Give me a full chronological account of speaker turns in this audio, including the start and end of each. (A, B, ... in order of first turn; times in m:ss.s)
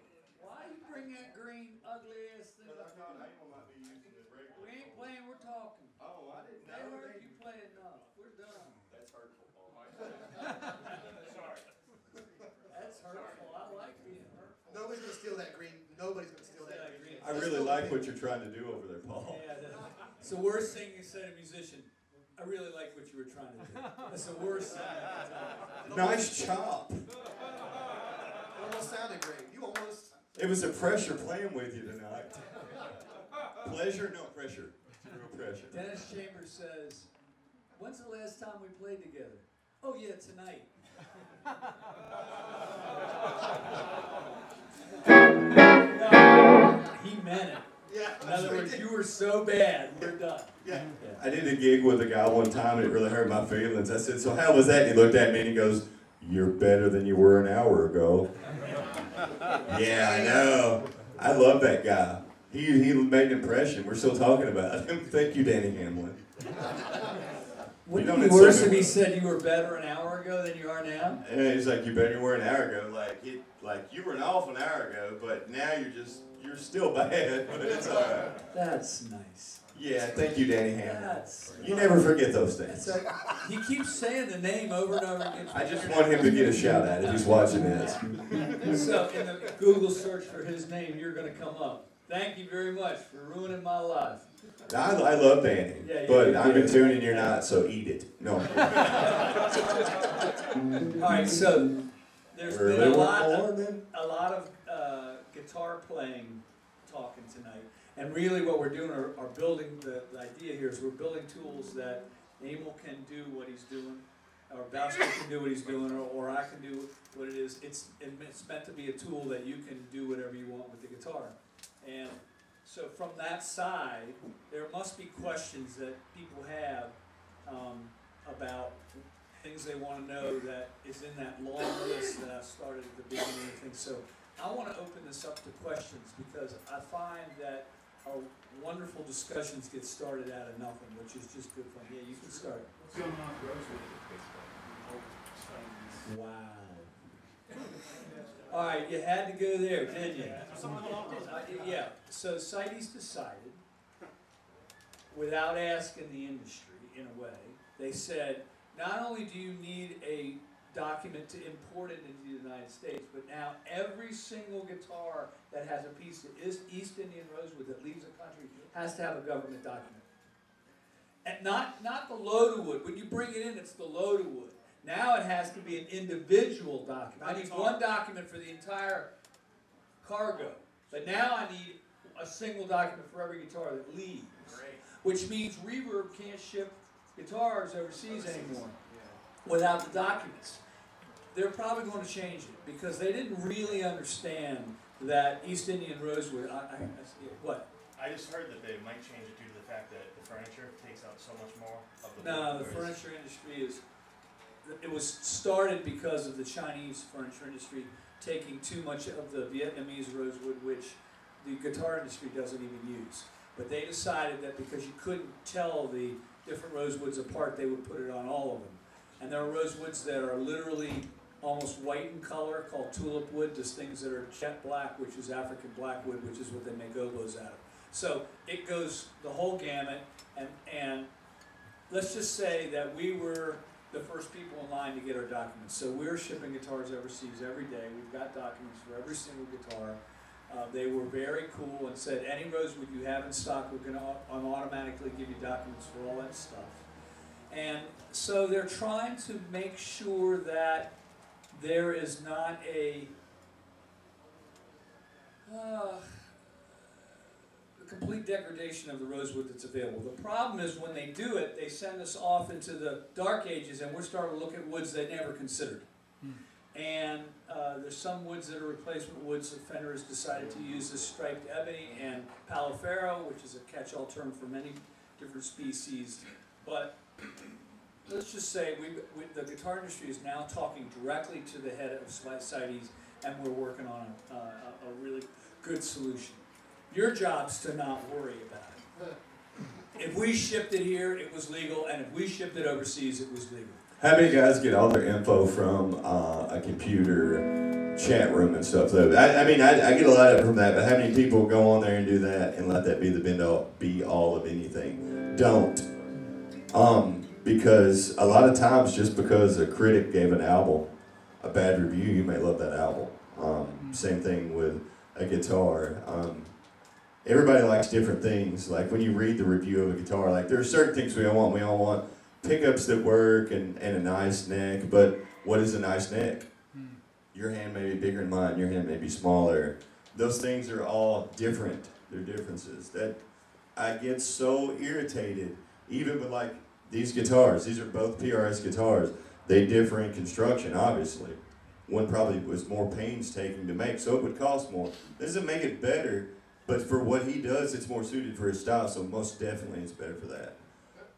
0:00.4-0:03.2 A
0:02.6-0:05.1 B
0:04.5-0:06.0 A
0:06.0-0:07.3 B
0:06.6-0:08.8 A
0:08.9-0:10.1 B
0:10.5-0:11.0 A
0:11.2-0:11.5 C
0:12.7-0:14.6 A
0:14.7-0:18.0 D
0:16.6-0:17.8 A
0:17.2-0:19.4 B
0:19.2-0:26.2 A
0:25.8-0:27.1 B
0:28.5-0:30.3 D
0:30.4-0:32.9 B
0:33.5-0:35.8 B
0:35.7-0:37.1 A
0:37.7-0:40.7 A
0:45.9-0:47.7 A
0:47.9-0:48.8 D
0:48.2-0:51.2 A
0:50.6-0:50.9 D
0:51.1-0:58.3 B
0:59.7-1:06.2 B
0:59.8-1:00.6 A
1:07.8-1:11.2 A
1:07.9-1:09.0 B
1:11.2-1:18.3 B
1:18.5-1:19.6 A
1:19.7-1:23.0 B
1:20.2-1:22.1 A
1:22.6-1:27.6 A
1:25.5-1:28.0 B
1:28.5-1:34.3 A
1:34.7-1:39.2 B
1:35.8-1:37.5 A
1:38.8-1:39.9 A
1:41.0-1:41.8 A
1:42.3-2:22.7 A
1:42.4-1:43.8 B
2:22.8-2:26.1 C
2:26.0-2:26.9 A
2:28.2-2:28.5 C
2:28.5-2:30.5 A
2:30.0-2:31.7 C
2:31.1-2:33.6 A
2:35.1-2:50.0 A
2:51.2-2:59.1 A
2:57.2-2:57.8 C
3:00.0-3:08.8 A
3:04.4-3:04.8 C
3:08.2-3:09.2 C
3:09.4-3:10.6 A
3:11.3-3:17.7 A
3:18.0-3:23.0 C
3:22.2-3:23.8 A
3:24.6-3:51.1 A
3:51.9-4:06.9 A
4:07.5-4:10.9 A
4:11.5-4:13.1 A
4:15.4-4:17.3 A
4:17.8-4:25.9 A
4:26.7-4:37.0 A
4:38.1-4:48.8 A
4:49.9-4:53.8 A
4:54.0-5:05.8 B
5:06.7-5:16.5 B
5:17.2-5:26.5 B
5:27.3-5:33.2 B
5:33.8-5:50.6 B